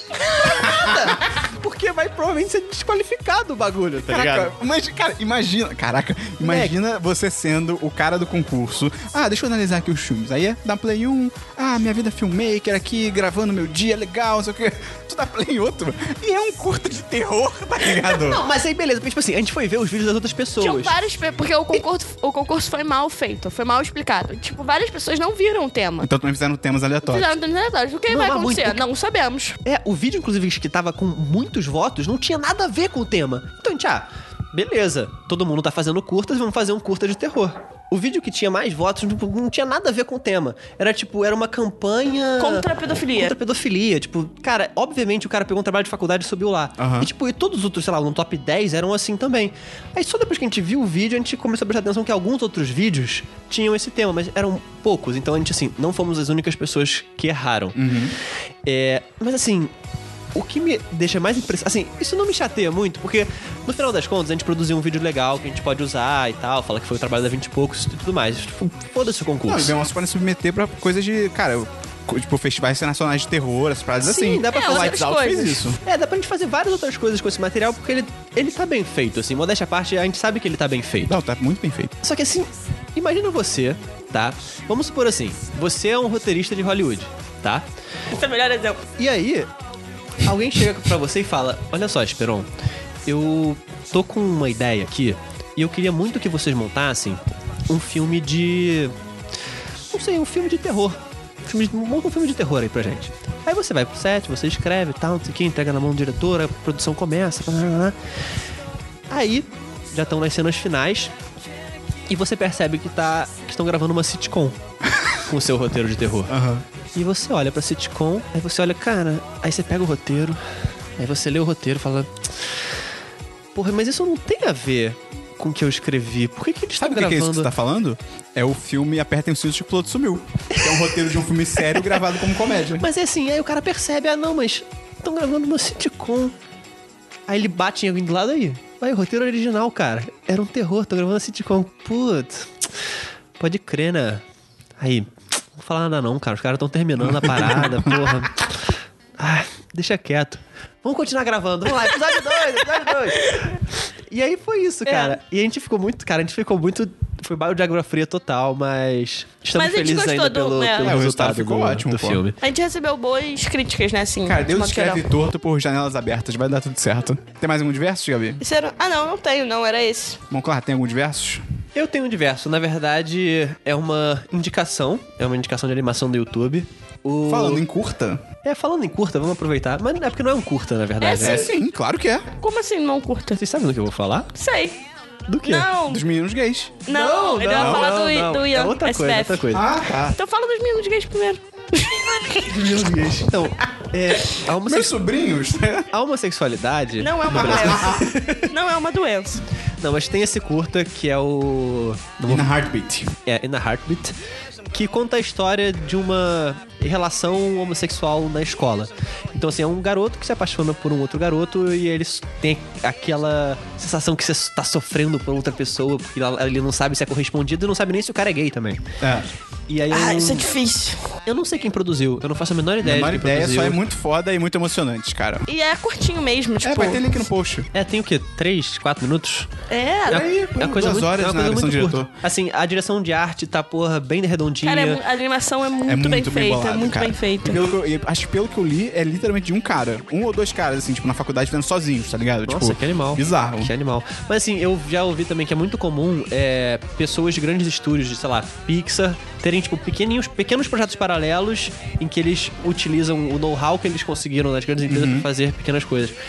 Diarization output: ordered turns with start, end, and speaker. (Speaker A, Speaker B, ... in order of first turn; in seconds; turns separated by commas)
Speaker A: 0.2-4.5, Speaker B: 0.4-1.3, Speaker B: 4.0-18.4, Speaker A: 6.4-6.7, Speaker A: 17.9-20.9, Speaker C: 20.6-26.1, Speaker B: 26.0-27.3, Speaker C: 27.0-29.6, Speaker A: 28.1-28.8, Speaker A: 29.6-57.9, Speaker C: 42.4-43.3, Speaker B: 46.8-47.1, Speaker B: 57.7-58.1, Speaker A: 58.6-59.7, Speaker A: 60.3-69.7, Speaker B: 69.5-75.8, Speaker A: 74.0-75.1, Speaker C: 74.4-75.6, Speaker A: 75.7-81.2, Speaker B: 81.1-82.0, Speaker A: 82.0-87.7, Speaker C: 88.1-88.8, Speaker A: 89.0-89.5, Speaker A: 90.2-92.5, Speaker A: 93.0-99.0, Speaker A: 99.9-108.0, Speaker A: 109.1-111.1, Speaker A: 112.1-114.6, Speaker A: 115.2-116.3, Speaker B: 116.3-116.6, Speaker A: 116.9-120.4, Speaker A: 121.0-122.6, Speaker A: 123.5-127.5, Speaker B: 126.8-132.8, Speaker A: 130.5-130.9, Speaker A: 132.8-136.3, Speaker A: 137.3-142.7, Speaker A: 143.4-144.2, Speaker A: 144.8-162.4, Speaker B: 147.1-148.1, Speaker C: 153.2-153.5, Speaker C: 154.9-155.2, Speaker C: 159.5-160.9, Speaker B: 160.8-162.2, Speaker C: 162.4-165.1, Speaker B: 164.2-168.4, Speaker C: 168.4-170.2, Speaker B: 170.3-171.4, Speaker A: 171.7-177.6, Speaker B: 177.2-178.2, Speaker A: 178.4-181.4, Speaker C: 181.0-181.5, Speaker B: 181.2-182.3, Speaker C: 182.4-183.4, Speaker A: 183.3-184.3, Speaker C: 184.3-184.8, Speaker A: 185.3-185.7, Speaker C: 185.4-186.0, Speaker B: 185.9-186.8, Speaker C: 186.8-189.5, Speaker A: 186.9-189.7, Speaker B: 187.5-187.9, Speaker B: 189.5-190.2, Speaker C: 190.1-192.5, Speaker A: 192.3-195.0, Speaker B: 194.7-195.9, Speaker A: 195.9-198.5, Speaker C: 197.0-199.4, Speaker B: 197.3-198.1, Speaker A: 199.8-202.5, Speaker B: 202.3-203.1, Speaker A: 203.2-204.1, Speaker A: 204.7-218.8, Speaker B: 219.0-219.3, Speaker A: 219.7-220.5, Speaker C: 219.9-221.0, Speaker A: 221.2-223.8, Speaker B: 222.8-225.5, Speaker C: 225.5-227.0, Speaker B: 226.6-227.7, Speaker A: 227.7-229.5, Speaker C: 229.7-230.3, Speaker B: 230.1-232.1, Speaker A: 230.1-235.0, Speaker C: 234.6-237.6, Speaker B: 235.8-243.7, Speaker A: 242.5-256.2, Speaker B: 254.9-255.3